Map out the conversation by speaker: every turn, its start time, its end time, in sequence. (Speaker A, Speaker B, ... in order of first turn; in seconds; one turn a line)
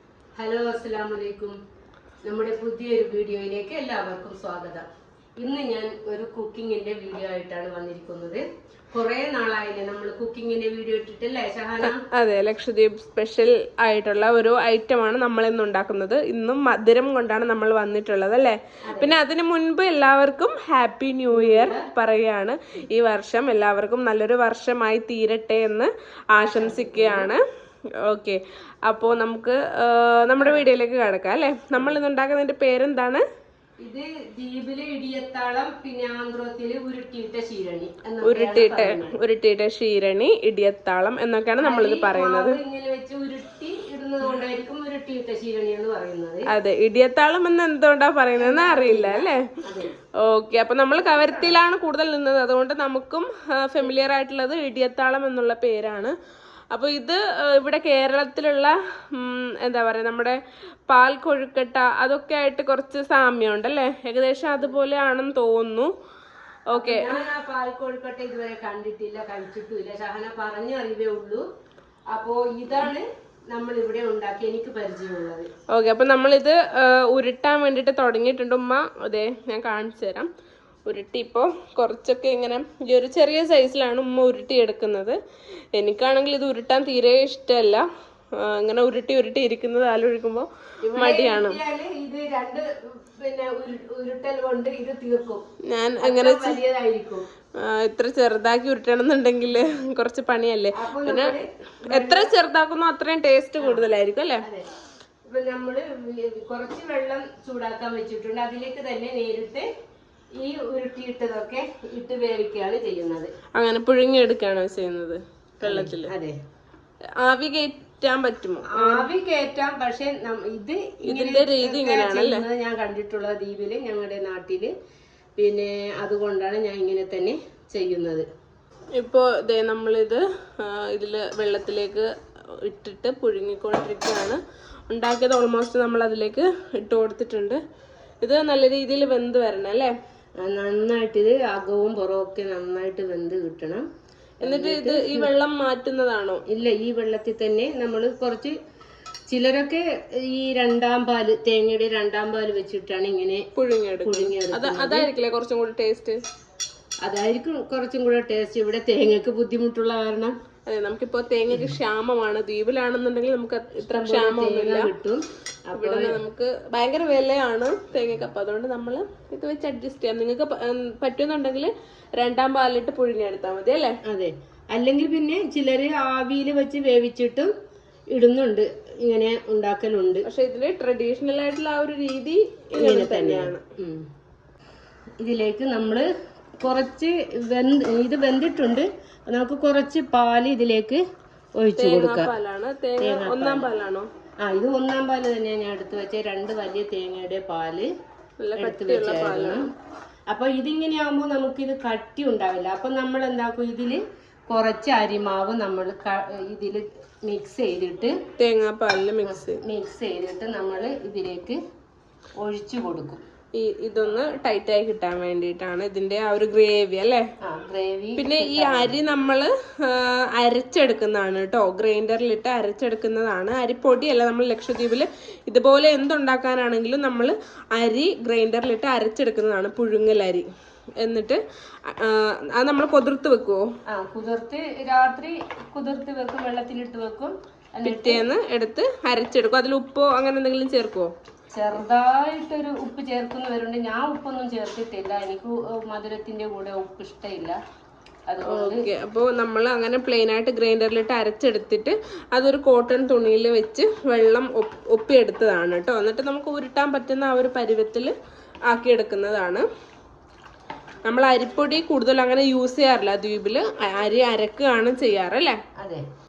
Speaker A: 0.3-1.6
Speaker A: 2.2-4.8
Speaker A: 5.4-12.0
Speaker B: 11.8-27.4
Speaker A: 18.9-19.1
Speaker A: 21.3-21.9
Speaker A: 26.5-27.3
Speaker B: 28.0-33.2
Speaker A: 33.8-39.1
Speaker B: 38.2-42.6
Speaker A: 41.6-46.5
Speaker B: 46.5-49.4
Speaker A: 48.4-49.9
Speaker B: 50.2-56.1
Speaker A: 51.0-51.5
Speaker B: 56.7-65.9
Speaker B: 66.7-67.3
Speaker A: 66.7-71.4
Speaker A: 72.1-75.5
Speaker B: 75.7-80.3
Speaker B: 80.8-85.2
Speaker B: 85.7-87.8
Speaker B: 88.4-91.6
Speaker A: 90.8-95.4
Speaker B: 95.7-96.6
Speaker A: 96.0-97.3
Speaker B: 97.6-104.4
Speaker A: 100.8-102.3
Speaker A: 103.6-103.8
Speaker A: 104.4-104.7
Speaker A: 105.3-109.7
Speaker A: 110.4-113.3
Speaker B: 113.5-116.1
Speaker A: 115.6-116.3
Speaker B: 117.2-119.1
Speaker A: 118.7-124.7
Speaker B: 121.0-122.4
Speaker A: 125.4-128.2
Speaker B: 129.0-132.1
Speaker B: 132.6-137.6
Speaker B: 138.2-139.9
Speaker A: 140.4-143.8
Speaker A: 144.4-145.3
Speaker B: 144.4-146.4
Speaker A: 146.5-148.5
Speaker A: 149.3-153.4
Speaker B: 153.5-156.2
Speaker A: 154.0-155.1
Speaker A: 157.1-160.3
Speaker B: 160.7-164.9
Speaker A: 163.9-166.2
Speaker B: 165.7-173.9
Speaker A: 174.1-177.5
Speaker A: 178.1-180.2
Speaker B: 180.2-183.6
Speaker A: 182.8-184.0
Speaker A: 185.2-186.1
Speaker A: 186.6-191.0
Speaker A: 191.6-192.3
Speaker B: 191.8-194.1
Speaker A: 193.0-193.7
Speaker A: 194.4-197.9
Speaker B: 198.4-199.7
Speaker A: 198.6-199.7
Speaker A: 200.3-208.2
Speaker B: 208.4-209.6
Speaker A: 209.2-211.6
Speaker A: 212.4-213.2
Speaker B: 213.5-217.2
Speaker A: 217.4-218.9
Speaker B: 218.2-230.5
Speaker B: 231.0-233.7
Speaker A: 233.9-238.2
Speaker B: 237.8-241.1
Speaker A: 241.5-247.6
Speaker A: 248.3-248.9
Speaker B: 248.4-258.1
Speaker B: 258.7-259.6
Speaker B: 261.0-265.6
Speaker A: 265.8-266.0